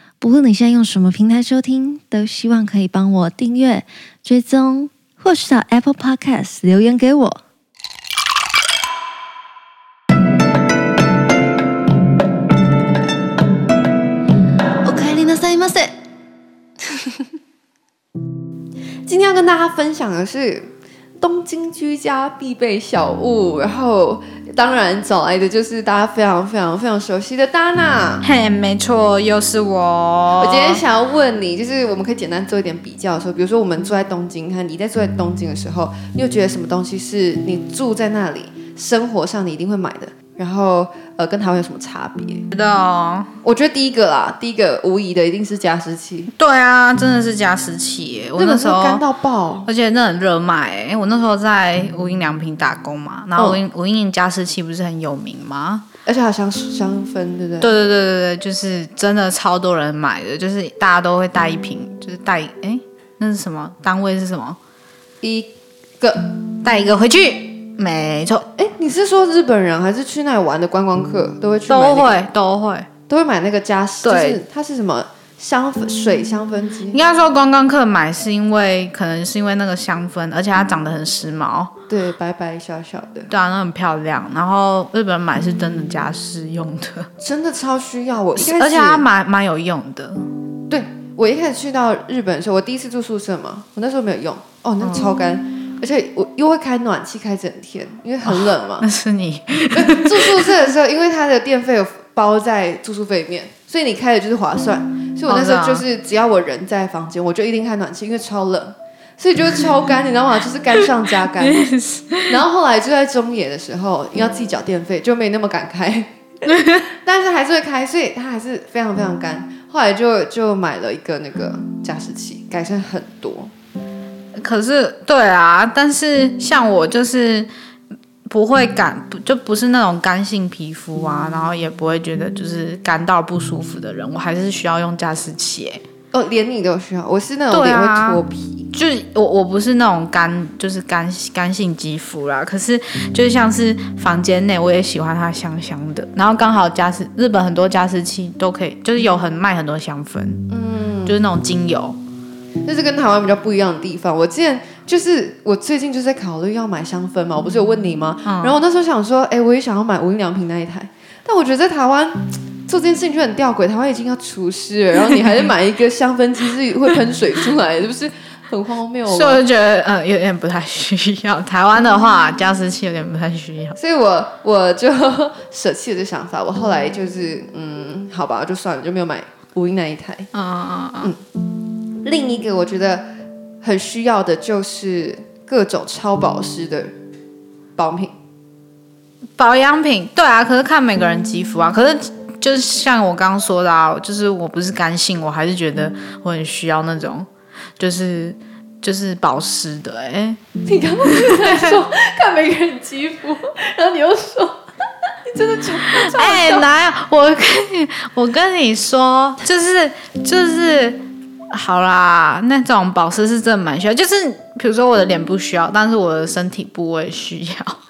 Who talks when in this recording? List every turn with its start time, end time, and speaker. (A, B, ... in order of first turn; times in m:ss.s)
0:00.2-0:07.4 A
0:14.8-0:15.9 A
0:19.0-0:28.2 B
0:28.2-0:30.8 C
0:30.4-0:42.4 B
0:42.5-0:43.3 C
0:43.4-0:46.3 B
0:46.4-0:49.0 C
0:48.4-0:49.7 B
0:49.7-0:55.8 C
0:53.4-0:53.6 B
0:56.0-0:57.7 B
0:57.6-1:04.6 C
1:05.2-1:06.3 B
1:06.6-1:08.4 C
1:08.6-1:12.2 B
1:11.7-1:12.9 C
1:13.1-1:17.0 B
1:14.0-1:14.4 C
1:16.9-1:21.7 C
1:21.9-1:23.3 B
1:23.3-1:27.1 C
1:27.2-1:29.0 B
1:28.3-1:30.3 C
1:30.7-1:38.9 B
1:34.8-1:35.1 C
1:38.2-1:40.5 C
1:39.7-1:51.7 B
1:45.3-1:45.8 C
1:51.4-1:52.4 C
1:52.3-2:03.5 B
1:56.5-1:56.8 C
2:04.4-2:07.5 C
2:08.3-2:15.8 C
2:16.1-2:18.7 B
2:17.5-2:18.2 C
2:18.7-2:30.4 C
2:30.5-2:31.2 B
2:31.0-2:32.0 C
2:32.6-2:49.4 B
2:38.2-2:38.6 C
2:49.1-2:53.8 C
2:53.8-3:00.3 B
3:00.3-3:01.1 C
3:02.0-3:03.0 B
3:03.6-3:06.9 B
3:07.8-3:08.1 B
3:09.4-3:20.4 C
3:20.6-3:24.6 B
3:21.1-3:21.7 C
3:25.3-3:26.7 B
3:25.8-3:37.8 C